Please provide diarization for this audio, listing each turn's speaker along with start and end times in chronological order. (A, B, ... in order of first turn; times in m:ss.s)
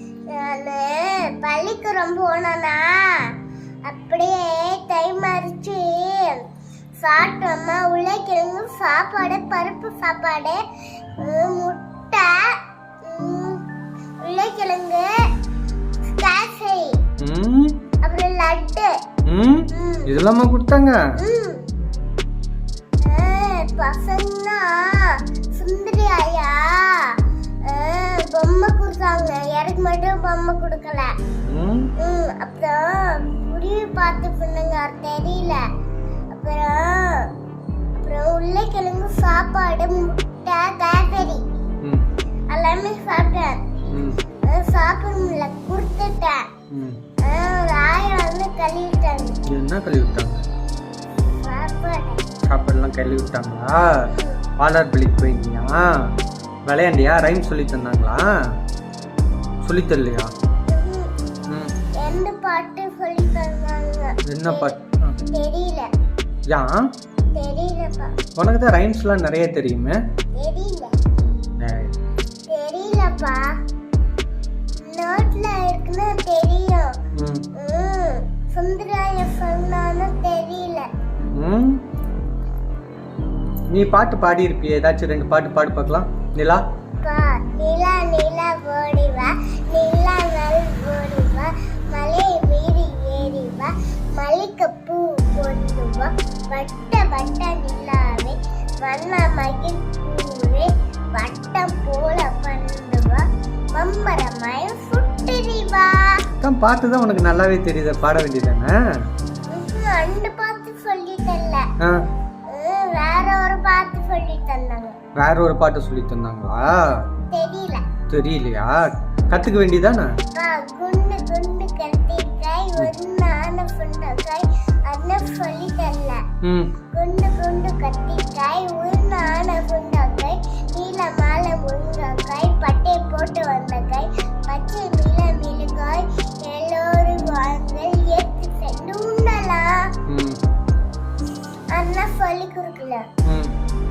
0:00.3-0:03.3 A
0:03.8-0:06.4 A
0:07.0-0:10.6 A
0:11.2-0:13.6 A
0:14.2-0:15.1 A
0:16.1-0:17.0 A
0:17.2-0:17.8 B
0:18.0-0:18.9 A
0:19.3-0:21.0 B
0:19.7-0:20.1 A
0:21.2-0:21.6 A
0:23.0-0:31.1 A
0:31.5-0:31.9 B
0:32.0-0:35.6 A
0:36.3-0:37.3 A
0:37.9-0:41.4 A
0:42.5-0:43.6 A
0:43.9-0:44.2 B
0:44.4-0:46.5 A
0:46.7-0:47.0 B
0:47.2-0:49.3 A
0:49.5-0:50.4 B
0:51.2-0:52.2 A
0:52.4-0:54.0 B
0:54.1-0:54.4 A
0:54.6-0:56.1 B
0:56.6-0:58.3 B
0:59.6-1:00.3 B
1:00.7-1:01.1 A
1:01.5-1:01.7 B
1:02.0-1:04.7 A
1:04.2-1:05.2 B
1:05.2-1:05.9 A
1:06.5-1:06.9 B
1:07.3-1:08.1 A
1:08.4-1:10.0 B
1:10.4-1:10.9 A
1:11.6-1:11.9 B
1:12.5-1:13.5 A
1:14.8-1:16.9 A
1:17.2-1:17.4 B
1:17.5-1:20.9 A
1:21.3-1:21.8 B
1:23.7-1:26.6 B
1:27.0-1:46.2 A
1:46.4-1:48.7 B
1:49.5-1:51.6 A
1:52.5-1:55.0 A
1:55.2-1:57.0 B
1:57.3-1:57.8 A
1:58.1-2:00.1 B
2:00.3-2:06.2 A
2:06.4-2:06.7 B
2:06.9-2:19.9 A
2:20.1-2:20.4 B
2:21.7-2:23.0 A
2:23.2-2:23.5 B